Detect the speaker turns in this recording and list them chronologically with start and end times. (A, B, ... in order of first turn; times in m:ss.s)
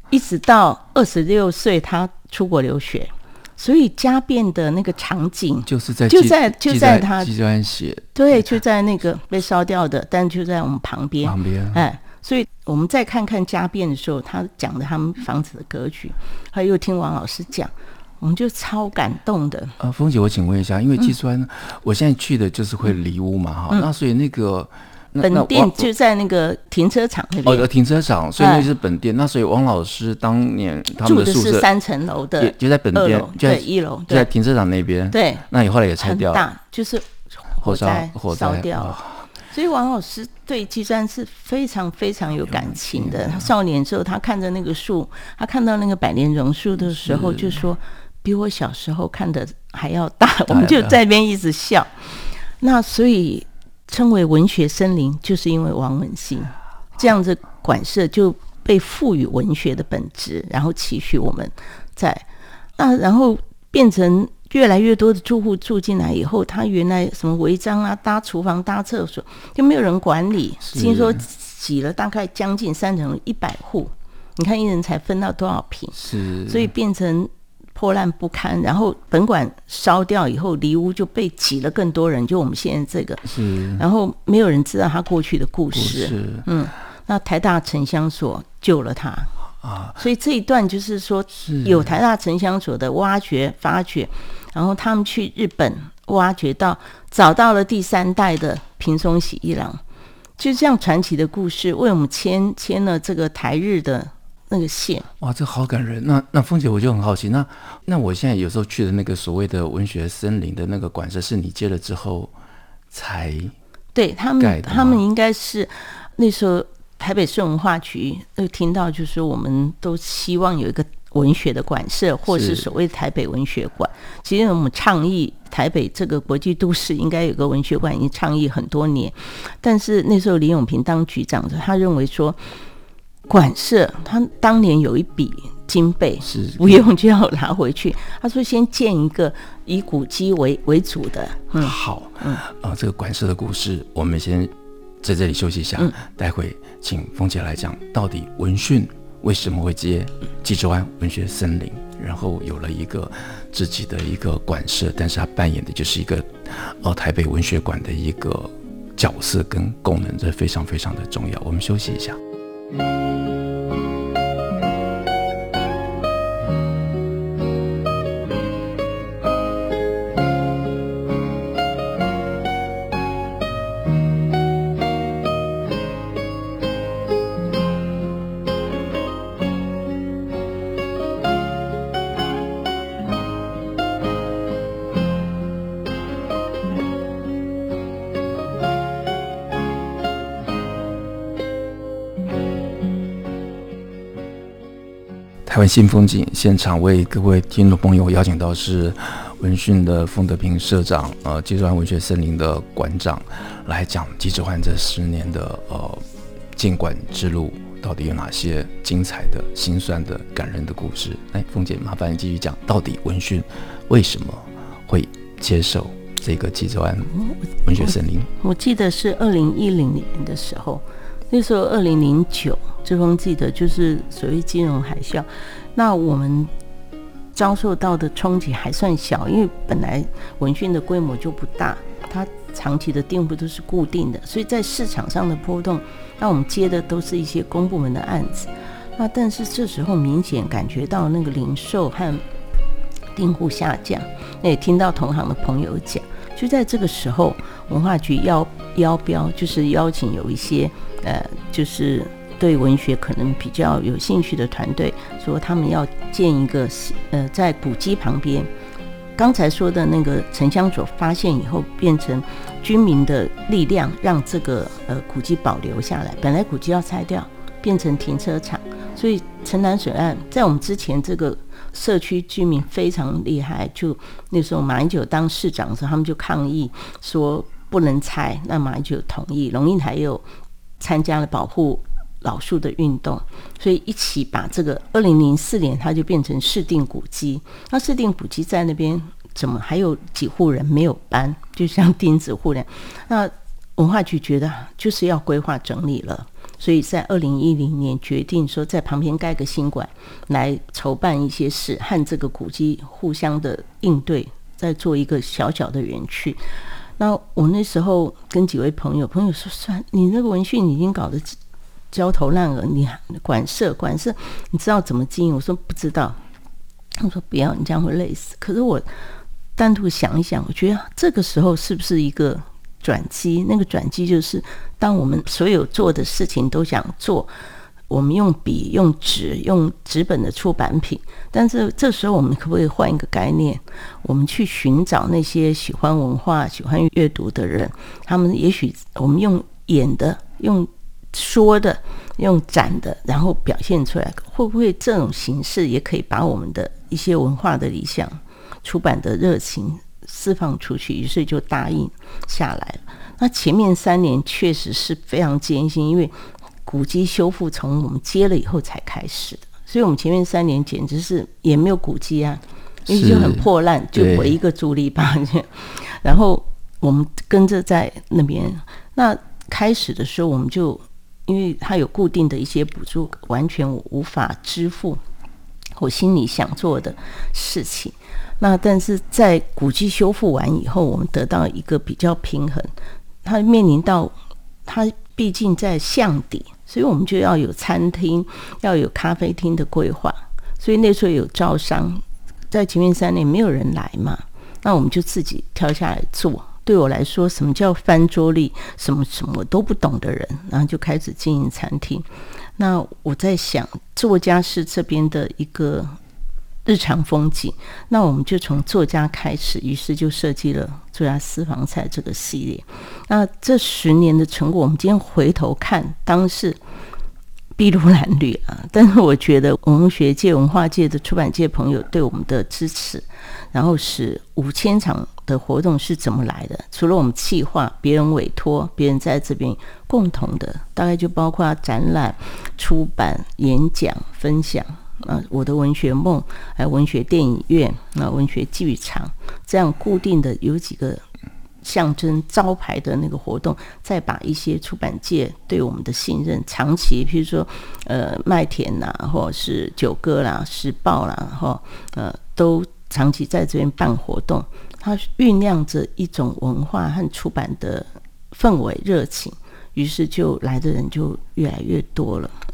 0:00.1-0:07.3 A
0:05.6-0:08.4 B
0:08.1-0:19.7 A
0:11.2-0:11.8 B
0:19.8-0:25.9 B
0:25.2-0:27.7 A
0:27.4-0:31.7 B
0:28.4-0:28.7 A
0:31.0-0:34.3 A
0:32.4-0:36.5 B
0:35.1-0:35.4 A
0:36.0-0:39.0 A
0:37.6-0:39.3 B
0:39.5-1:02.2 A
0:42.5-0:43.5 B
0:47.0-0:47.6 B
0:50.5-0:51.0 B
1:02.8-1:29.3 A
1:10.7-1:11.2 B
1:16.0-1:16.7 B
1:23.2-1:23.8 B
1:25.7-1:26.5 B
1:29.6-1:30.0 B
1:30.0-1:39.8 A
1:31.3-1:31.9 B
1:40.4-1:45.1 A
1:45.2-1:52.3 B
1:52.9-1:53.6 B
1:53.9-2:12.4 A
1:54.4-1:55.0 B
2:02.3-2:02.7 B
2:13.3-2:22.4 A
2:16.2-2:16.9 B
2:21.6-2:42.2 B
3:15.4-3:26.0 B
3:26.6-3:38.3 B
3:37.8-3:46.5 A
3:47.3-4:02.2 A
4:03.1-4:18.5 A
4:19.2-4:40.2 A
4:40.8-5:06.4 A
5:07.0-5:11.4 A
5:11.9-5:16.2 A
5:17.0-5:18.8 A
5:19.6-5:27.3 A
5:27.9-6:15.0 A
6:02.9-6:04.3 B
6:15.8-6:22.7 A
6:23.2-6:24.1 A
6:24.6-6:42.0 A
6:42.6-6:46.0 A
6:46.6-6:56.6 A
6:57.6-7:21.0 A
7:21.6-7:42.3 A